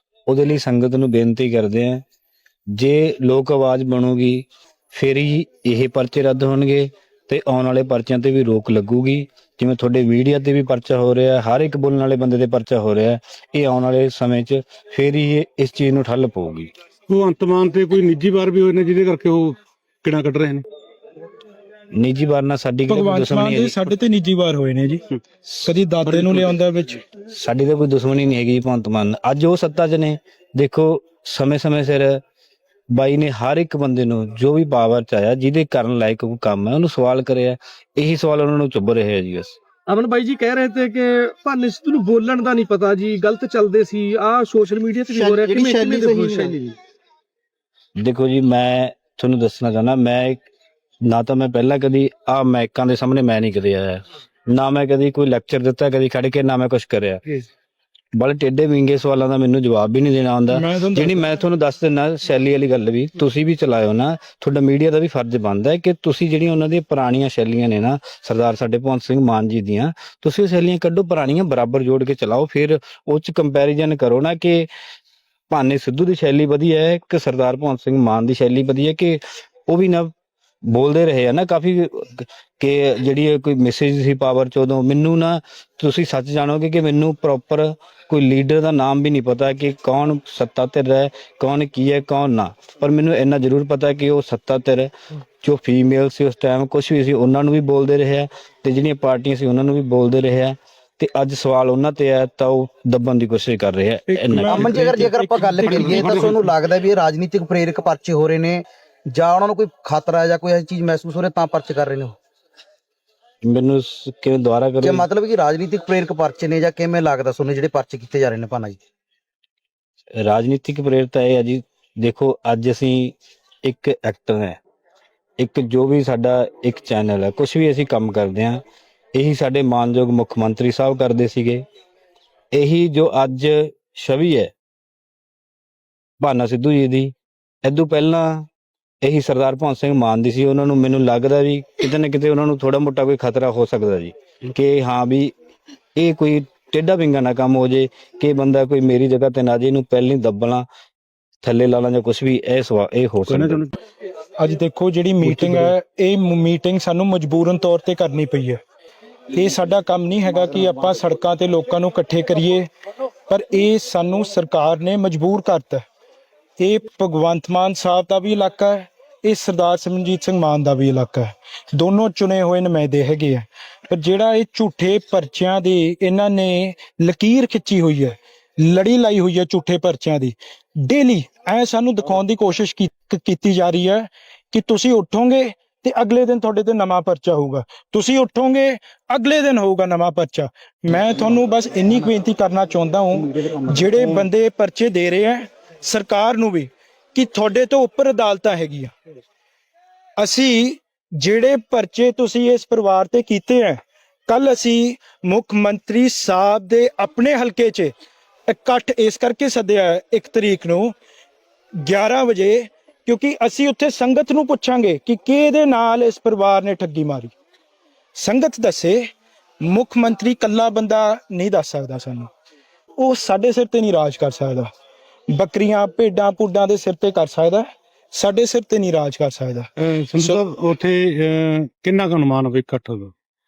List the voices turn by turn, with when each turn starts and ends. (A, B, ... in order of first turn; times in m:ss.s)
0:00.3-0:02.0 A
0:02.8-0:16.7 A
0:17.1-0:20.6 B
0:21.9-0:23.9 A
0:22.9-0:27.0 C
0:26.0-0:26.6 B
0:27.3-0:32.2 A
0:32.9-0:39.6 A
0:39.9-0:46.7 D
0:45.1-0:46.6 E
0:48.0-0:50.5 A
0:51.0-0:57.2 A
0:58.2-1:14.7 A
1:00.5-1:01.3 C
1:15.5-1:20.1 A
1:20.7-1:44.9 A
1:44.1-1:45.1 C
1:44.4-1:52.2 E
1:45.2-1:46.5 B
1:53.4-1:55.1 A
1:54.8-1:58.8 E
2:00.2-2:04.6 A
2:05.4-2:08.6 A
2:09.2-2:11.6 A
2:12.5-2:14.5 A
2:16.2-2:17.1 A
2:17.6-2:18.5 A
2:19.0-2:25.3 A
2:26.0-2:30.7 A
2:31.4-2:33.6 A
2:33.3-2:33.7 B
2:34.4-2:38.6 C
2:35.2-2:35.7 B
2:39.3-2:42.7 C
2:43.3-2:45.8 C
2:46.6-3:18.9 C
3:20.2-3:27.9 C
3:28.5-3:31.0 C
3:31.8-3:37.3 C
3:38.2-3:39.0 C
3:39.6-3:42.3 C
3:43.0-3:44.7 C
3:45.3-3:49.7 C
3:49.8-3:53.1 B